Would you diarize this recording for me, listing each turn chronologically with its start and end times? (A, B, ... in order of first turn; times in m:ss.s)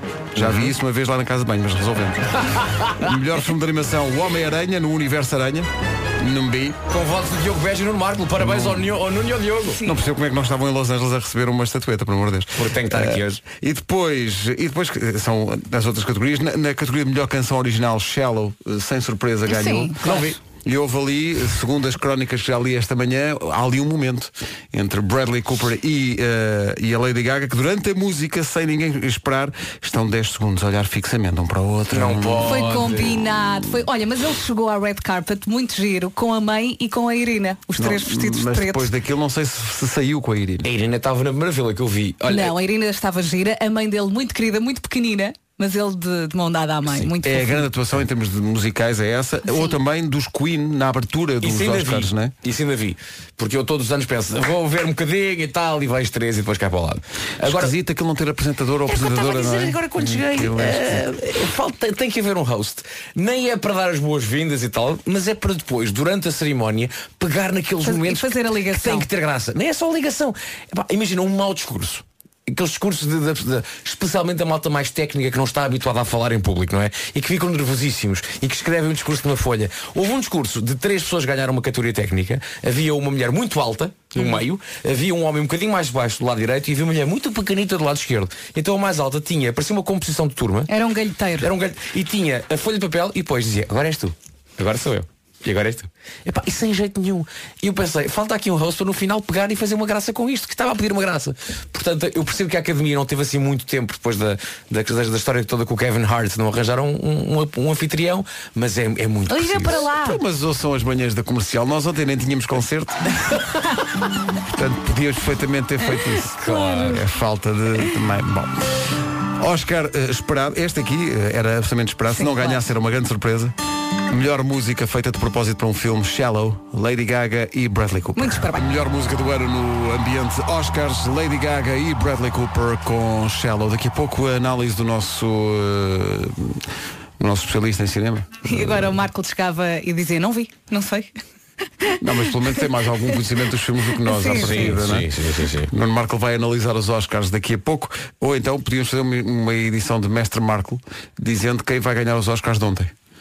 0:00.4-0:06.8 A
0:00.4-0:00.7 B
0:02.6-0:03.0 B
0:06.9-0:09.8 B
0:08.4-0:09.0 A
0:09.8-0:20.0 A
0:12.6-0:13.4 B
0:19.5-0:20.3 C
0:20.0-0:20.4 B
0:20.6-0:32.8 A
0:31.9-0:33.2 B
0:32.4-0:38.9 C
0:37.8-0:40.7 A
0:40.6-0:42.6 B
0:42.3-0:47.7 C
0:47.2-0:52.3 A
0:51.4-0:57.7 B
0:57.4-1:01.1 A
0:58.9-1:30.7 B
1:07.8-1:09.1 C
1:30.7-1:31.5 C
1:31.4-1:49.8 B
1:49.3-1:50.2 C
1:49.7-1:53.2 A
1:54.5-1:58.6 A
1:56.4-1:56.9 C
1:56.4-1:57.0 B
1:59.4-2:03.6 A
2:02.1-2:02.6 C
2:04.1-2:16.6 A
2:08.2-2:08.6 C
2:17.2-2:19.0 A
2:18.4-2:21.2 C
2:21.8-2:22.3 C
2:22.0-2:25.1 A
2:24.0-2:24.8 C
2:24.3-2:25.7 B
2:25.7-2:32.9 A